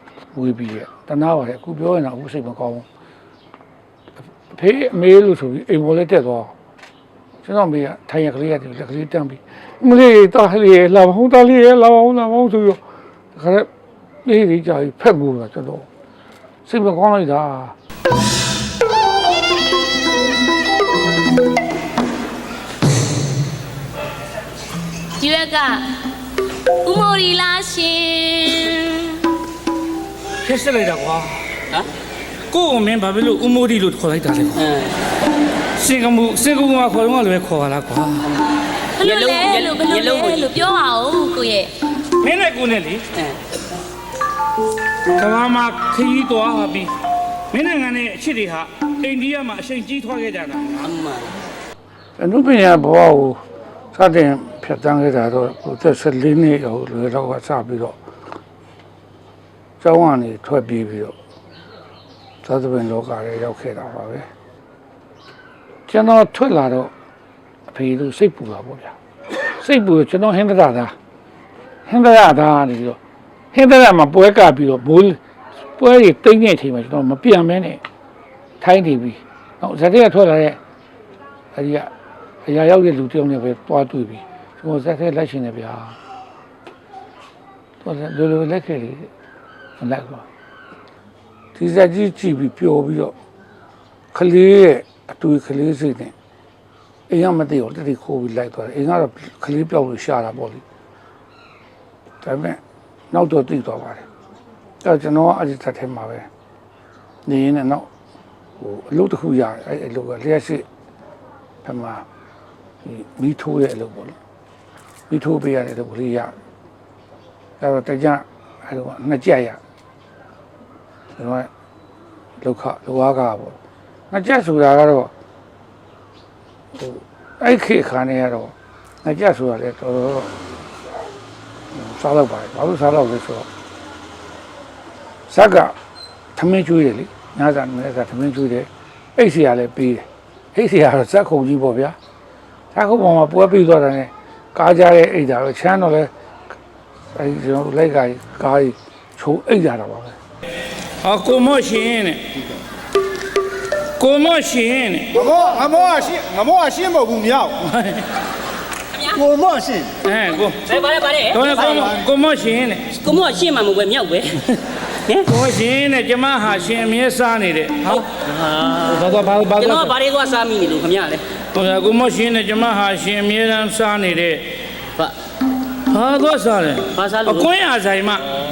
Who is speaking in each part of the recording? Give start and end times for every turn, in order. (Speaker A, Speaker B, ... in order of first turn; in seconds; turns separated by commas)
Speaker A: 0.3-2.9, Speaker A: 4.5-6.5, Speaker A: 7.4-12.8, Speaker A: 13.3-13.7, Speaker A: 14.2-15.9, Speaker A: 16.7-17.8, Speaker B: 25.2-26.0, Speaker B: 26.8-29.3, Speaker C: 30.4-31.4, Speaker C: 32.5-34.6, Speaker D: 34.6-35.0, Speaker C: 35.8-38.4, Speaker B: 39.0-41.8, Speaker D: 39.0-40.5, Speaker C: 42.1-43.1, Speaker C: 45.1-46.9, Speaker C: 47.5-50.9, Speaker D: 50.8-51.4, Speaker A: 52.2-53.4, Speaker A: 53.9-58.0, Speaker A: 59.8-61.2, Speaker A: 62.4-64.3, Speaker A: 65.9-66.9, Speaker A: 67.7-69.0, Speaker A: 69.6-71.0, Speaker A: 71.9-73.0, Speaker A: 73.5-75.2, Speaker A: 75.8-77.8, Speaker A: 78.6-80.6, Speaker A: 81.5-81.9, Speaker A: 82.5-86.0, Speaker A: 87.8-89.1, Speaker A: 89.8-90.3, Speaker A: 91.5-93.2, Speaker A: 94.1-96.1, Speaker A: 97.1-100.6, Speaker A: 102.2-104.1, Speaker A: 104.8-106.3, Speaker A: 107.2-107.9, Speaker A: 108.6-110.7, Speaker A: 111.6-112.0, Speaker A: 112.8-114.2, Speaker A: 115.1-116.3, Speaker A: 117.6-119.6, Speaker A: 121.2-121.5, Speaker A: 122.4-123.6, Speaker A: 124.1-125.1, Speaker A: 126.8-130.3, Speaker A: 131.7-133.5, Speaker A: 135.3-135.8, Speaker A: 136.3-142.0, Speaker A: 142.7-146.1, Speaker A: 147.1-150.2, Speaker C: 151.0-152.3, Speaker C: 154.0-155.5, Speaker E: 155.8-157.4, Speaker C: 157.5-158.1, Speaker D: 158.9-159.7, Speaker E: 159.4-159.7, Speaker C: 160.0-160.6, Speaker D: 160.7-162.0, Speaker C: 161.3-162.9, Speaker D: 162.9-165.3, Speaker C: 165.2-168.1, Speaker D: 167.9-171.2, Speaker C: 168.8-169.9, Speaker C: 171.5-174.6, Speaker C: 175.9-178.3, Speaker D: 176.9-177.5